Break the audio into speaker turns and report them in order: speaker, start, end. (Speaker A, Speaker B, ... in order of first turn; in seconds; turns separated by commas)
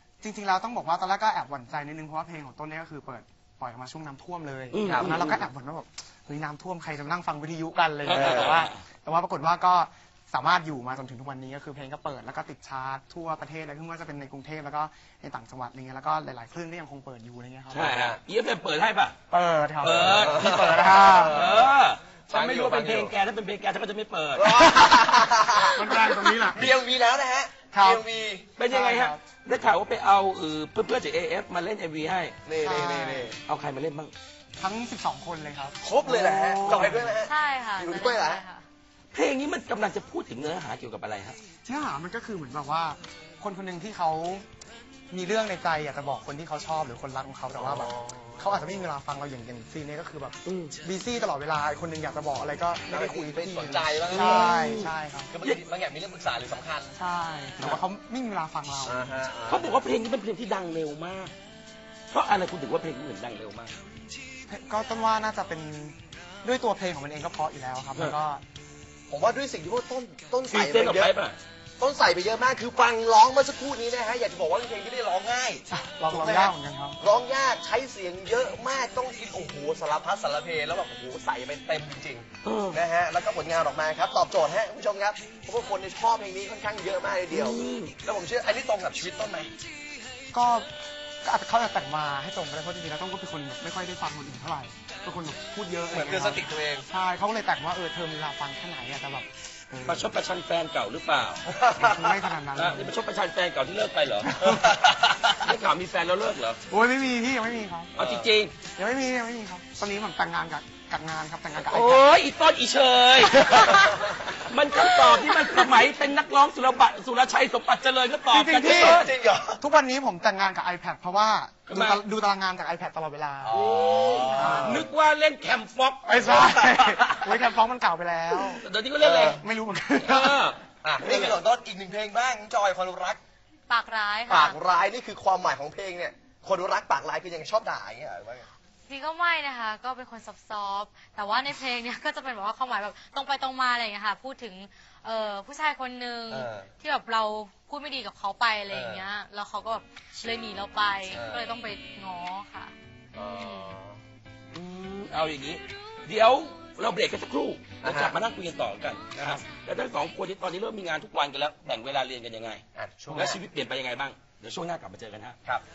Speaker A: 0.2-17.9, Speaker B: 4.7-5.5, Speaker C: 4.9-5.2, Speaker B: 8.1-8.8, Speaker C: 8.2-8.5, Speaker B: 17.7-19.2, Speaker C: 17.9-18.2, Speaker A: 19.3-21.5, Speaker B: 19.8-24.7, Speaker C: 19.8-21.8, Speaker C: 22.3-23.1, Speaker C: 24.4-28.5, Speaker A: 24.6-26.7, Speaker A: 27.7-28.0, Speaker B: 28.6-32.4, Speaker A: 28.7-29.2, Speaker C: 32.5-33.4, Speaker A: 32.6-33.3, Speaker B: 33.5-34.1, Speaker A: 34.6-37.2, Speaker C: 35.8-38.4, Speaker D: 37.2-38.6, Speaker B: 39.1-41.4, Speaker A: 41.6-44.5, Speaker A: 45.1-55.3, Speaker C: 47.5-48.8, Speaker B: 50.5-50.8, Speaker C: 52.9-56.9, Speaker B: 54.1-55.6, Speaker A: 57.0-59.1, Speaker C: 58.9-59.8, Speaker B: 59.5-61.3, Speaker B: 62.1-63.8, Speaker A: 64.5-68.4, Speaker C: 69.1-71.2, Speaker B: 70.5-71.4, Speaker C: 71.8-89.5, Speaker A: 75.7-77.0, Speaker B: 82.4-82.8, Speaker B: 87.3-88.0, Speaker A: 90.3-90.7, Speaker A: 91.2-100.1, Speaker C: 95.9-96.9, Speaker B: 99.9-101.5, Speaker C: 101.5-101.9, Speaker A: 101.8-102.9, Speaker B: 102.6-106.6, Speaker A: 104.2-104.6, Speaker A: 106.7-107.9, Speaker B: 108.0-108.5, Speaker C: 108.0-108.3, Speaker A: 108.8-112.1, Speaker B: 111.6-119.1, Speaker A: 113.3-113.9, Speaker A: 118.3-124.9, Speaker C: 118.7-119.6, Speaker B: 121.7-122.0, Speaker C: 123.4-124.9, Speaker B: 123.5-127.4, Speaker D: 124.1-124.5, Speaker A: 126.0-128.7, Speaker B: 128.5-129.4, Speaker C: 129.0-129.4, Speaker A: 129.2-130.5, Speaker B: 130.0-131.3, Speaker C: 130.8-133.2, Speaker A: 131.0-131.3, Speaker D: 133.7-134.6, Speaker C: 134.3-138.5, Speaker D: 138.9-153.8, Speaker C: 146.3-146.7, Speaker C: 148.7-149.1, Speaker C: 151.1-151.5, Speaker C: 153.1-154.0, Speaker B: 154.5-165.4, Speaker C: 157.8-158.2, Speaker C: 162.8-163.4